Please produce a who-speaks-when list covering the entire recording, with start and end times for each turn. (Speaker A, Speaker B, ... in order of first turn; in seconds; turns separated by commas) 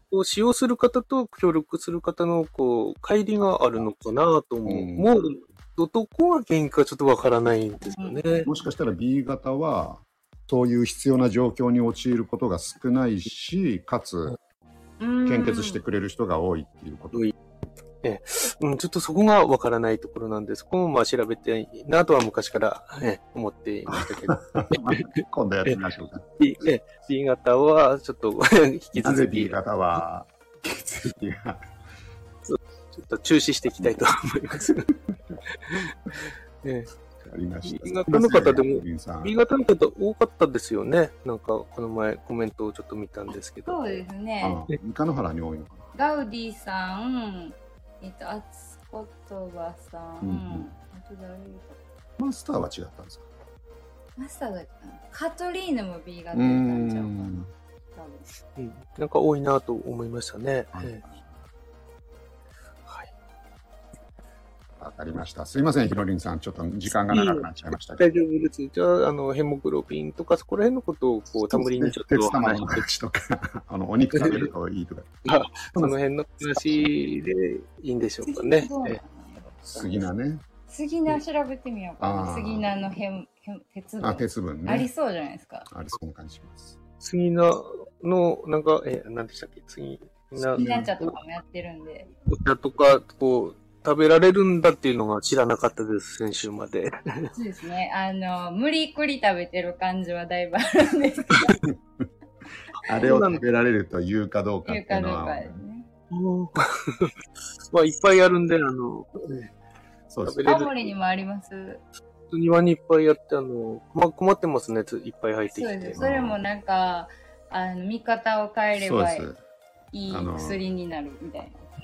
Speaker A: 0.1-8.5, Speaker B: 4.6-5.1, Speaker C: 8.0-8.7, Speaker B: 8.4-14.3, Speaker C: 15.0-15.8, Speaker B: 15.2-17.3, Speaker A: 18.0-25.1, Speaker B: 23.9-26.2, Speaker A: 26.4-30.0, Speaker B: 28.9-31.6, Speaker A: 32.4-34.9, Speaker B: 33.7-34.0, Speaker A: 35.6-37.0, Speaker B: 37.2-39.4, Speaker A: 37.6-43.9, Speaker C: 43.6-44.6, Speaker B: 44.4-45.9, Speaker C: 45.9-51.8, Speaker B: 50.2-50.7, Speaker B: 52.2-53.3, Speaker C: 54.2-58.3, Speaker B: 56.3-57.5, Speaker A: 58.5-61.0, Speaker B: 60.7-61.4, Speaker B: 64.8-68.0, Speaker A: 67.1-72.8, Speaker B: 71.4-75.1, Speaker A: 74.1-74.5, Speaker A: 75.2-79.0, Speaker B: 75.7-76.9, Speaker C: 78.2-79.5, Speaker B: 79.6-80.4, Speaker A: 79.7-80.1, Speaker C: 80.7-85.7, Speaker B: 82.0-83.0, Speaker B: 84.0-84.9, Speaker B: 85.7-86.8, Speaker A: 87.0-91.2, Speaker B: 90.3-90.9, Speaker C: 90.5-92.1, Speaker A: 92.3-97.3, Speaker C: 97.3-101.5, Speaker B: 101.6-102.0, Speaker B: 102.8-105.6, Speaker A: 102.8-103.4, Speaker C: 104.6-105.9, Speaker A: 106.1-107.1, Speaker A: 107.7-109.5, Speaker B: 110.1-110.4, Speaker A: 110.2-110.9, Speaker C: 110.4-111.8, Speaker A: 112.3-116.0, Speaker C: 115.5-119.3, Speaker B: 116.0-116.4, Speaker B: 118.7-119.4, Speaker C: 119.9-121.7, Speaker B: 120.1-120.6